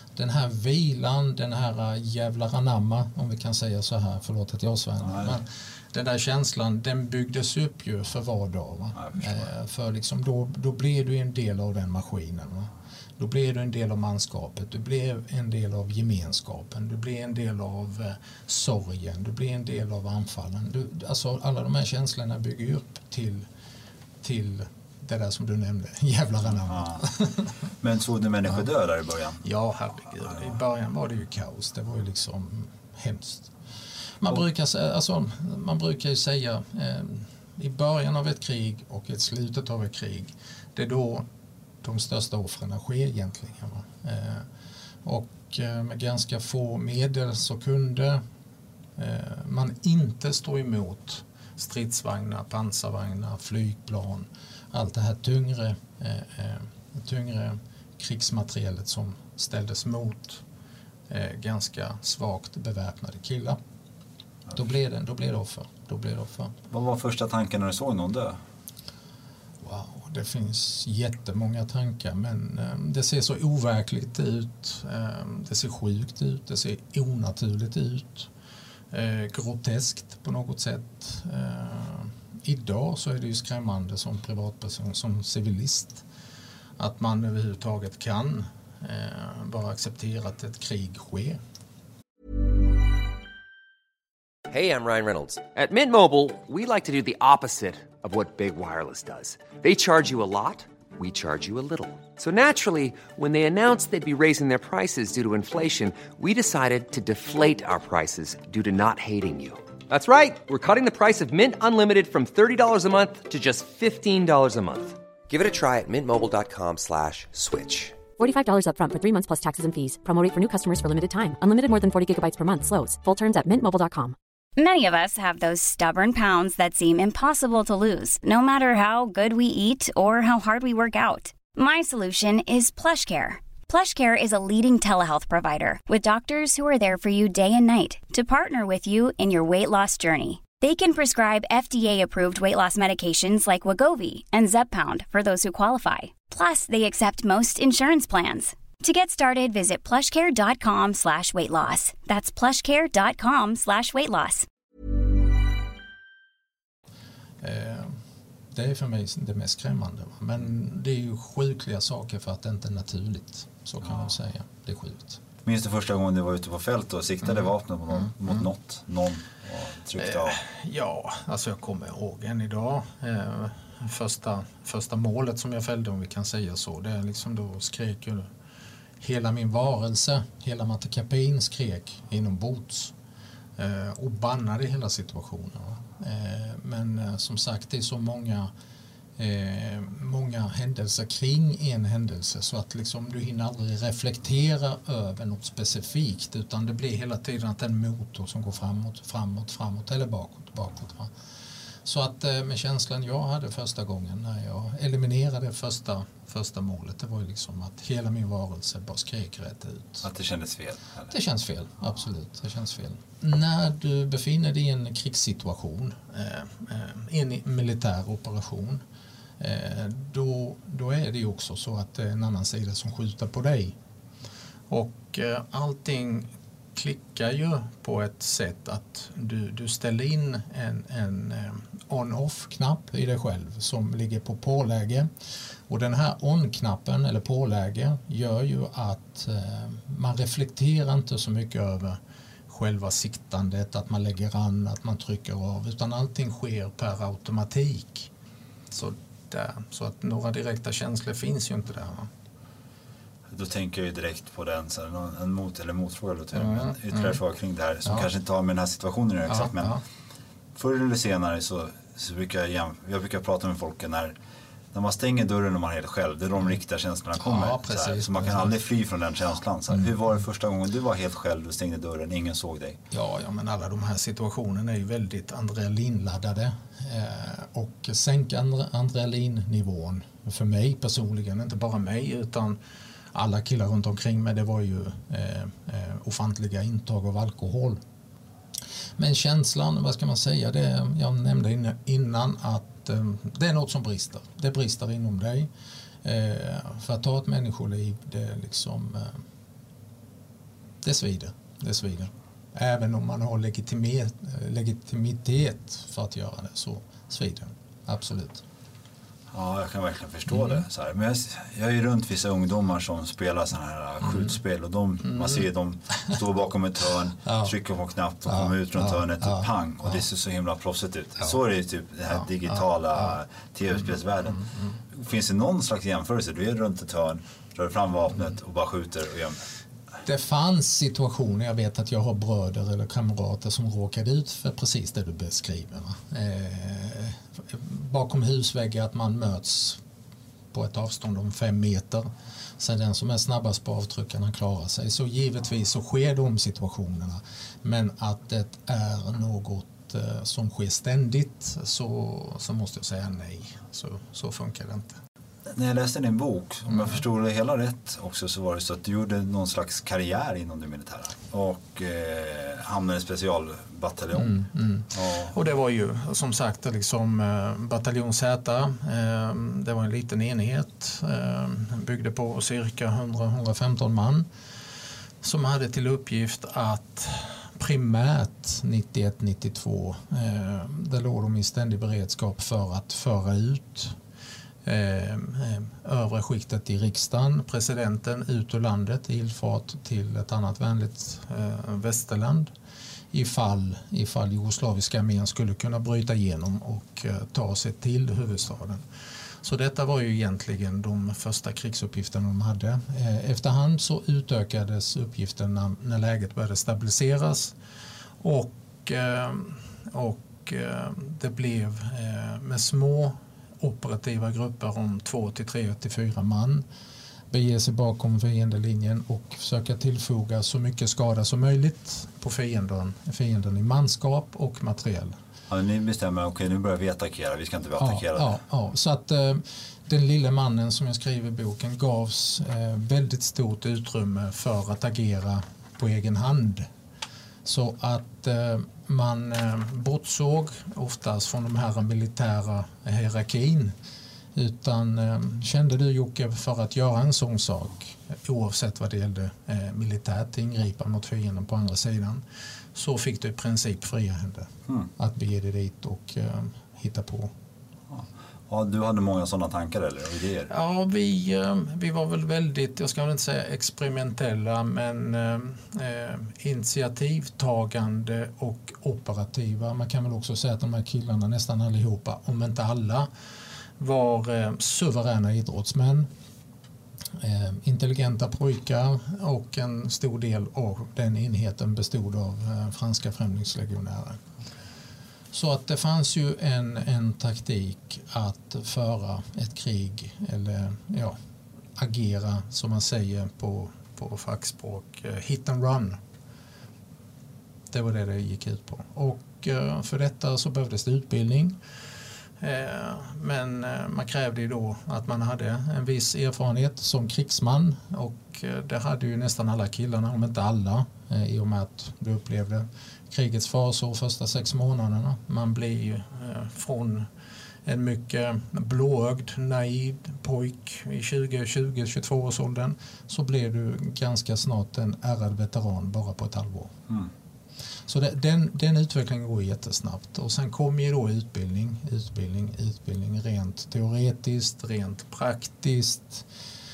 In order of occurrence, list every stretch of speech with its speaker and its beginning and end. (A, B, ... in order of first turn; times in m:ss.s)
0:00.2-0:23.5 A
0:05.1-0:05.4 B
0:09.0-0:09.5 B
0:24.2-0:27.5 A
0:26.5-0:27.0 B
0:27.8-0:29.4 B
0:29.4-0:33.5 A
0:34.2-0:41.3 A
0:41.8-0:44.5 A
0:45.0-0:48.2 A
0:49.0-1:00.4 A
1:01.1-1:03.6 A
1:04.6-1:06.5 A
1:06.7-1:08.4 B
1:09.6-1:18.3 A
1:18.9-1:26.0 A
1:26.8-1:31.4 A
1:34.5-1:58.0 C
1:58.2-2:04.2 D
2:04.6-2:34.4 E
2:37.4-2:38.0 A
2:38.5-2:45.2 A
2:45.4-2:50.4 B
2:50.0-2:58.3 A
2:59.0-3:02.9 A
3:03.6-3:08.5 A
3:09.2-3:21.1 A
3:21.8-3:30.1 A
3:30.0-3:31.1 B
3:31.1-3:38.8 A
3:39.4-3:43.8 A
3:44.7-3:55.1 A
3:55.7-4:08.1 A
4:08.7-4:12.1 A
4:13.3-4:19.8 B
4:16.3-4:17.2 A
4:19.3-4:19.8 A
4:20.6-4:24.1 B
4:24.7-4:32.8 B
4:27.2-4:28.5 A
4:32.9-4:42.6 A
4:43.1-4:47.8 A
4:49.0-4:55.5 A
4:56.0-4:59.2 A
5:00.8-5:08.4 A
5:09.3-5:29.4 B
5:10.3-5:10.6 A
5:14.0-5:14.3 A
5:15.0-5:15.4 A
5:17.2-5:17.5 A
5:18.3-5:20.0 A
5:22.1-5:23.1 A
5:24.3-5:24.8 A
5:30.0-5:39.8 A
5:40.5-5:42.1 A
5:42.6-5:55.0 A
5:55.4-6:05.3 B
5:56.7-5:57.0 A
6:04.2-6:14.3 A
6:15.2-6:24.0 A
6:24.6-6:32.5 A
6:33.1-6:38.8 A
6:39.4-6:47.5 A
6:48.2-6:56.6 A
6:57.3-7:05.2 A
7:05.5-7:08.4 B
7:07.8-7:16.7 A
7:17.4-7:23.7 A
7:24.4-7:32.2 A
7:32.8-7:37.3 A
7:37.9-7:40.5 B
7:40.5-7:53.1 A
7:53.8-7:56.1 A
7:57.2-8:04.2 A
8:05.3-8:11.2 A
8:11.8-8:16.0 A
8:17.7-8:21.6 A
8:22.4-8:37.1 A
8:37.6-8:46.7 A
8:47.9-8:56.2 A